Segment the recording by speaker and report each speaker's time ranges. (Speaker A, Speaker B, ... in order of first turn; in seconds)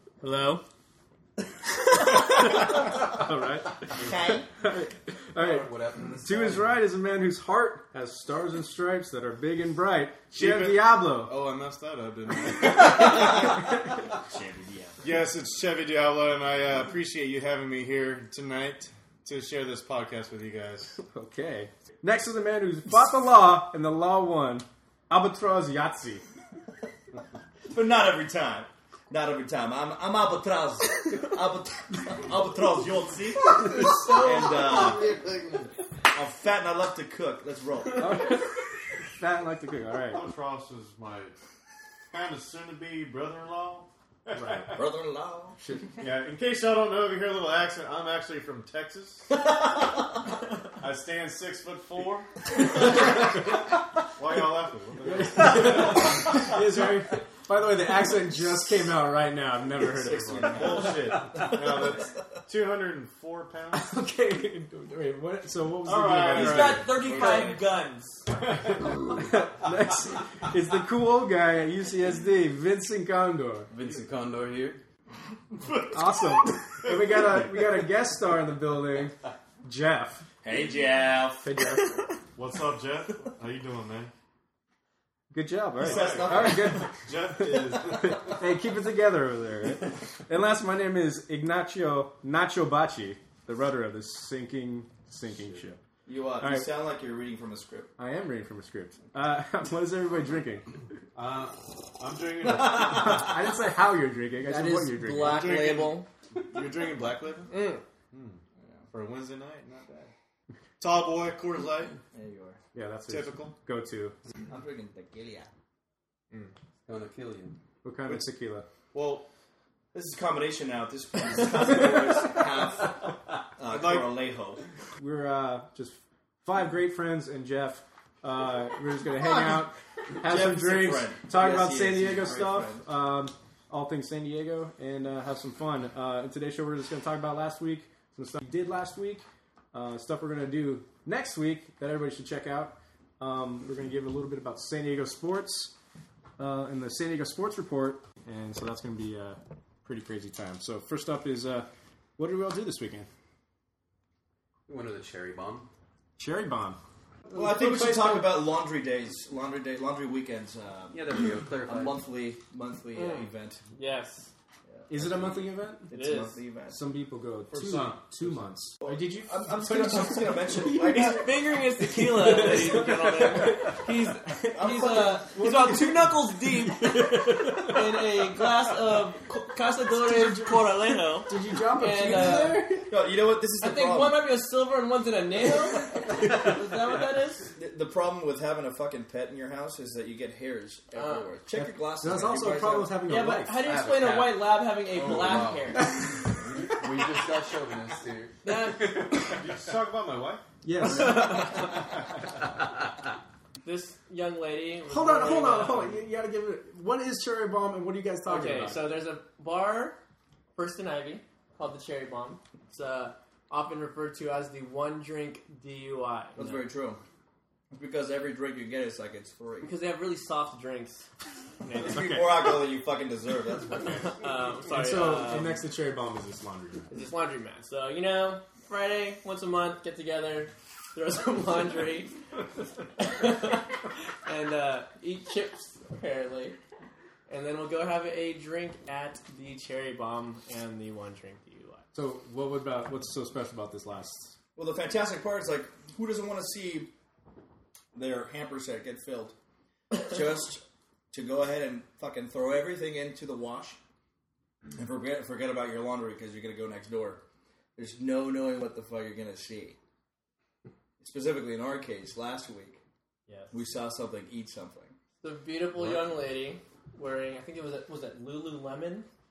Speaker A: 0.2-0.6, 34.0-34.7, 66.3-68.2, 104.4-106.1, 107.5-107.8, 162.9-164.3, 165.9-166.4, 170.9-182.7, 183.6-187.5, 190.9-191.3, 193.1-196.0, 198.4-199.3, 200.8-201.8, 203.6-206.0, 208.3-210.0, 210.6-216.7, 219.6-221.1, 221.7-222.2, 223.9-225.6, 226.9-232.2, 232.8-236.6, 237.3-241.8, 265.2-269.1
Speaker B: 3.0-3.9, 4.6-11.3, 21.0-26.2, 38.0-38.5, 39.2-40.3, 44.4-44.8, 45.6-45.9, 55.0-60.9, 63.7-67.5, 68.4-73.7, 75.9-80.2, 81.4-82.0, 85.3-95.8, 96.4-96.7, 98.0-100.8, 102.6-105.5, 112.7-114.2, 117.8-118.7, 125.0-145.7, 146.4-153.1, 156.2-158.5, 164.9-165.9, 166.7-178.0, 179.9-182.9, 191.5-193.6, 200.6-201.7, 204.9-208.9, 221.7-222.5, 224.7-226.9, 241.9-244.3
Speaker C: 3.9-4.5, 13.1-15.0, 27.7-35.1, 36.1-38.3, 44.7-45.9, 49.4-49.7, 59.8-62.0, 66.9-67.6, 80.4-81.5, 85.8-87.0, 96.1-97.9, 102.5-103.3, 112.1-112.6, 114.5-115.5, 119.9-124.7, 130.2-132.8, 157.3-161.2, 161.7-163.6, 164.7-166.8, 168.8-171.3, 174.6-175.1, 182.9-184.2, 187.6-193.0, 216.3-217.0, 217.7-219.7, 221.8-224.1, 244.6-246.9, 247.9-249.3, 249.9-253.8, 254.8-257.2, 257.8-259.8, 261.0-262.8, 263.5-264.9
Speaker D: 5.4-6.8, 33.9-35.6, 73.7-74.8, 116.9-117.6, 154.7-155.7, 160.9-162.0, 193.6-195.8, 196.6-199.3
Speaker E: 10.3-13.6, 15.0-20.9, 34.7-35.4, 40.1-41.4, 42.1-44.8, 46.0-49.3, 50.8-52.3, 54.2-56.5, 60.3-63.9, 65.8-66.9, 75.6-77.6, 82.3-84.1, 85.8-88.4, 101.2-103.3, 105.2-107.5, 108.1-108.4, 108.9-110.1, 110.8-112.0, 113.1-113.6, 118.9-119.3, 123.7-124.3, 167.5-168.4, 199.4-200.4